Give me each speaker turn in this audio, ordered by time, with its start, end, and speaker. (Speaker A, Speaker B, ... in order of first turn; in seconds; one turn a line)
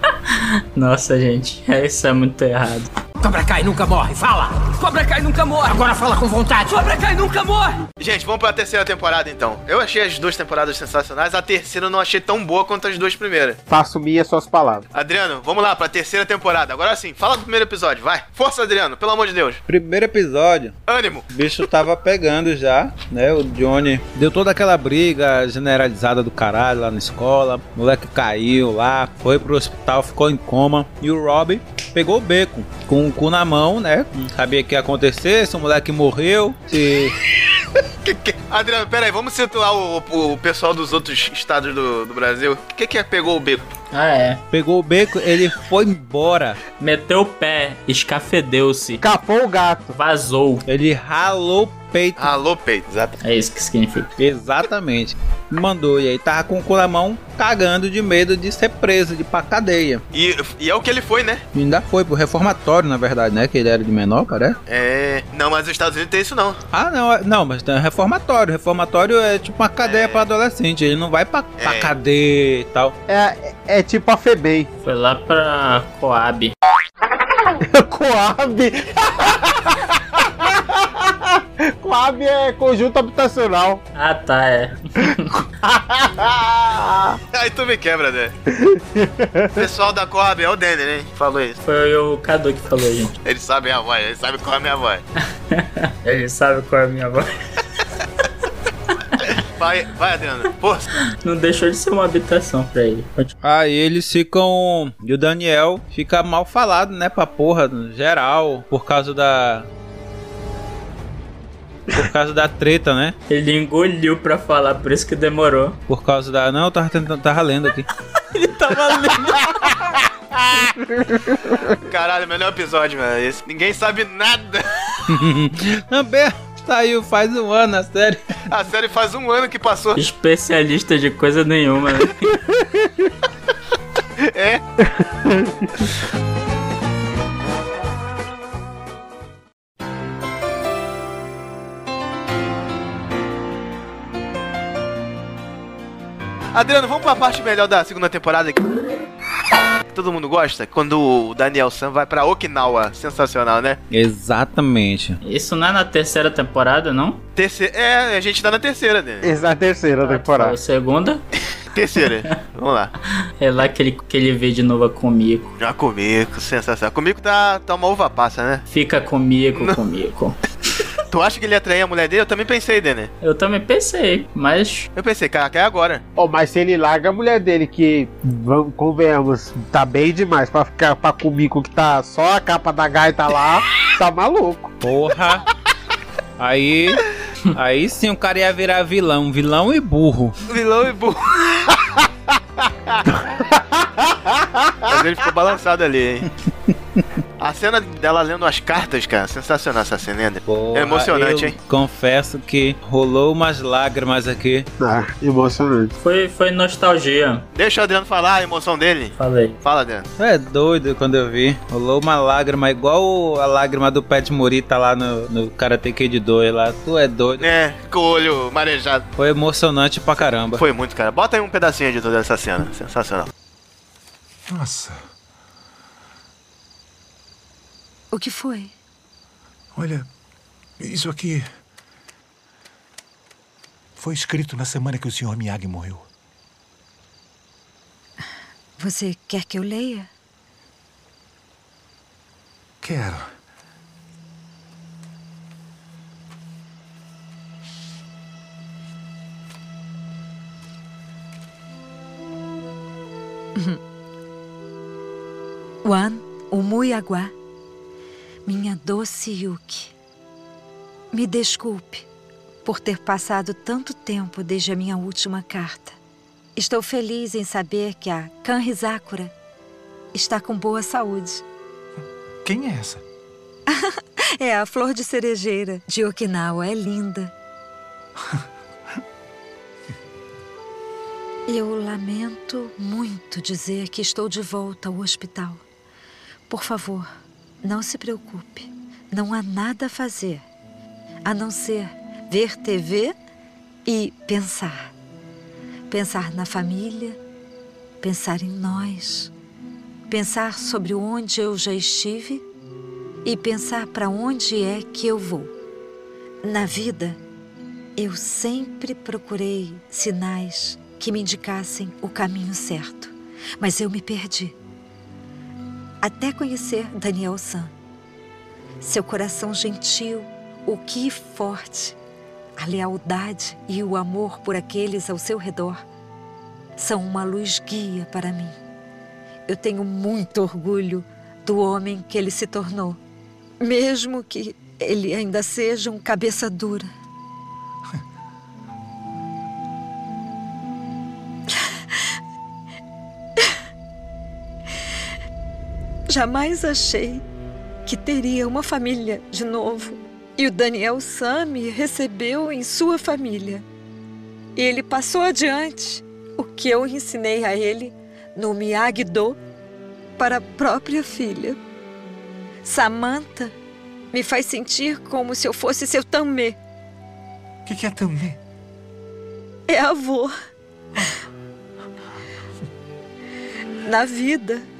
Speaker A: 0.2-2.9
Speaker B: 3.2-7.8
Speaker C: 8.0-13.6
Speaker D: 13.7-14.8
Speaker C: 14.9-19.6
Speaker E: 19.7-20.7
Speaker C: 20.9-21.3
Speaker E: 21.3-37.1
Speaker C: 38.0-43.7
Speaker A: 43.9-44.4
Speaker E: 44.5-46.6
Speaker A: 46.8-49.0
Speaker D: 49.0-49.9
Speaker A: 49.9-50.6
Speaker E: 50.7-52.3
Speaker C: 52.2-53.1
Speaker A: 53.2-54.1
Speaker E: 54.2-60.0
Speaker C: 60.1-61.4
Speaker E: 61.5-64.6
Speaker C: 64.7-66.6
Speaker E: 66.7-73.0
Speaker C: 69.8-70.2
Speaker C: 71.6-71.9
Speaker D: 73.1-74.7
Speaker A: 74.8-76.5
Speaker D: 77.6-83.8
Speaker A: 83.9-85.4
Speaker D: 85.6-87.2
Speaker C: 87.3-88.3
Speaker D: 88.5-89.6
Speaker C: 89.5-91.6
Speaker A: 91.6-93.2
Speaker C: 93.2-95.0
Speaker A: 95.5-97.3
Speaker C: 99.3-100.9
Speaker A: 101.2-103.3
Speaker E: 103.4-109.7
Speaker E: 111.9-113.1
Speaker A: 113.3-115.8
Speaker E: 115.9-117.9
Speaker A: 118.3-119.8
Speaker D: 121.1-121.5
Speaker C: 121.8-124.7
Speaker E: 125.1-128.2
Speaker C: 128.5-130.0
Speaker A: 129.9-132.3
Speaker D: 132.5-132.9
Speaker C: 134.2-134.6
Speaker D: 134.8-135.9
Speaker C: 146.5-148.8
Speaker C: 149.9-153.8
Speaker E: 153.9-155.2
Speaker A: 155.2-157.2
Speaker C: 157.3-159.3
Speaker D: 159.2-160.6
Speaker A: 160.0-161.2
Speaker C: 161.7-162.9
Speaker A: 163.4-165.6
Speaker C: 165.6-168.6
Speaker A: 168.7-170.8
Speaker C: 171.1-173.1
Speaker A: 173.2-174.9
Speaker C: 174.9-176.0
Speaker D: 176.2-184.7
Speaker E: 184.8-185.4
Speaker E: 186.4-190.4
Speaker C: 190.5-191.8
Speaker D: 193.2-195.0
Speaker C: 194.9-196.3
Speaker C: 197.4-201.6
Speaker E: 200.4-204.7
Speaker D: 204.8-205.9
Speaker A: 206.0-207.4
Speaker C: 207.5-210.1
Speaker A: 209.2-209.6
Speaker E: 210.2-217.4
Speaker C: 217.4-219.1
Speaker E: 219.2-220.6
Speaker C: 220.5-223.3
Speaker F: 224.5-225.1
Speaker G: 228.1-228.7
Speaker F: 229.7-230.1
Speaker F: 230.8-231.5
Speaker F: 233.9-236.1
Speaker G: 238.8-240.1
Speaker F: 242.8-243.3
Speaker G: 255.8-257.3
Speaker G: 258.4-259.9
Speaker G: 261.1-262.1
Speaker G: 262.6-266.0
Speaker G: 266.6-269.3
Speaker G: 270.1-271.4
Speaker F: 272.4-273.0
Speaker G: 273.7-277.3
Speaker G: 281.5-285.6
Speaker G: 286.5-287.1
Speaker G: 287.6-290.4
Speaker G: 291.2-293.1
Speaker G: 293.8-294.9
Speaker G: 295.9-297.2
Speaker G: 298.0-299.3
Speaker G: 300.1-302.4
Speaker G: 303.2-305.5
Speaker G: 306.4-307.2
Speaker G: 308.0-314.5
Speaker G: 316.0-317.7
Speaker G: 318.8-322.0
Speaker G: 322.6-325.8
Speaker G: 326.8-328.5
Speaker G: 329.5-333.0
Speaker G: 333.6-336.9
Speaker G: 341.5-342.0
Speaker G: 346.1-347.2
Speaker G: 347.9-353.6
Speaker G: 354.6-359.4
Speaker G: 360.2-361.6
Speaker G: 362.6-363.5
Speaker G: 364.1-366.6
Speaker F: 367.6-368.4
Speaker G: 369.7-370.3
Speaker G: 373.8-374.6